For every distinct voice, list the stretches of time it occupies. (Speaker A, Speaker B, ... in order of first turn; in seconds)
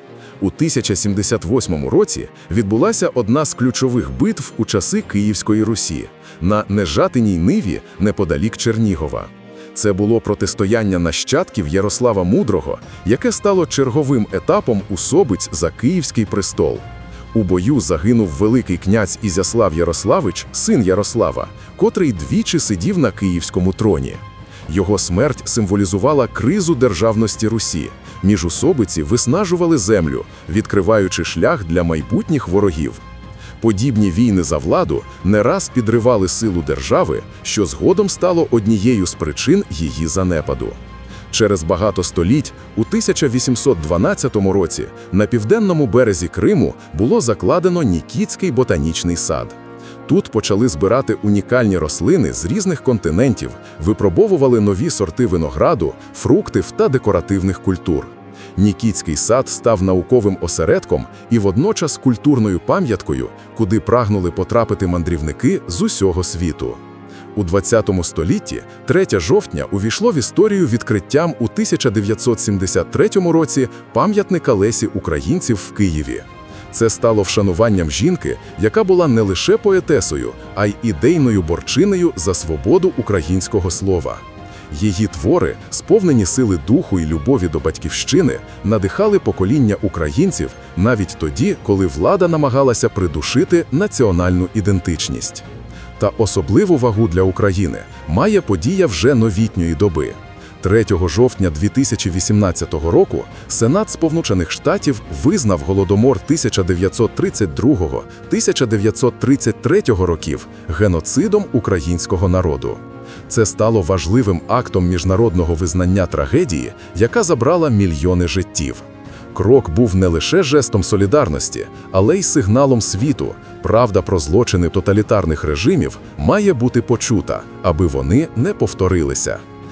Speaker A: 0.4-33.0, 33.6-40.8, 41.3-66.8, 67.3-95.5, 96.0-129.4